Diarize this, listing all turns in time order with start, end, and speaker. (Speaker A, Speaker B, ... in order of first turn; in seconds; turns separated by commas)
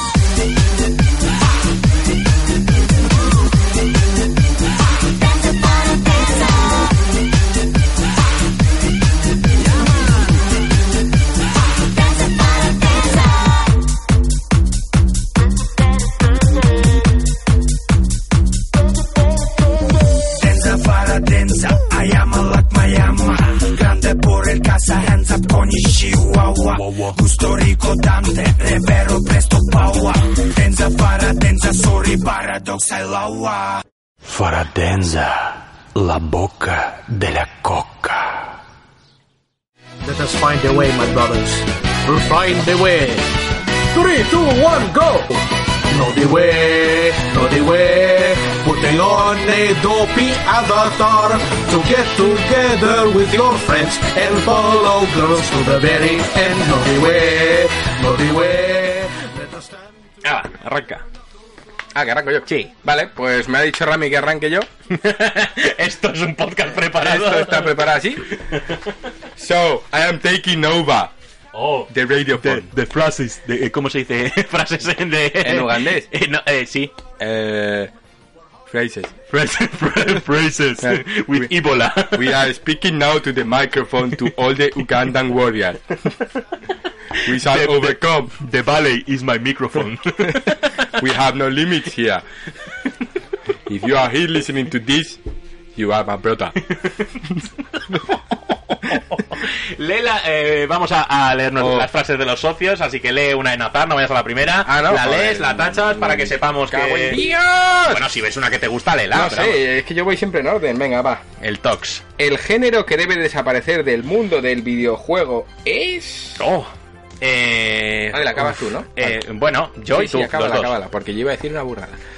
Speaker A: 20.2-33.8, Speaker B: 34.4-35.2, Speaker B: 36.0-38.1, Speaker C: 40.0-43.3, Speaker C: 43.9-59.9, Speaker D: 60.2-61.0, Speaker E: 61.9-64.7, Speaker D: 62.5-62.7, Speaker D: 64.9-68.9, Speaker E: 66.8-68.3, Speaker E: 69.3-71.1, Speaker D: 71.5-76.9, Speaker E: 71.9-72.7, Speaker E: 75.4-76.1, Speaker E: 77.2-77.9, Speaker E: 78.7-79.1, Speaker D: 79.3-82.4, Speaker E: 80.8-81.5, Speaker E: 82.1-86.2, Speaker D: 87.2-90.7, Speaker E: 87.2-88.3, Speaker E: 90.9-92.2, Speaker E: 93.7-95.2, Speaker E: 95.8-96.5, Speaker D: 96.7-97.1, Speaker D: 98.7-107.2, Speaker E: 101.6-101.9, Speaker E: 104.6-108.1, Speaker D: 107.8-109.6, Speaker E: 109.1-111.2, Speaker D: 111.4-112.0, Speaker E: 112.2-116.5, Speaker D: 116.4-120.7, Speaker E: 118.1-119.2, Speaker E: 119.9-122.0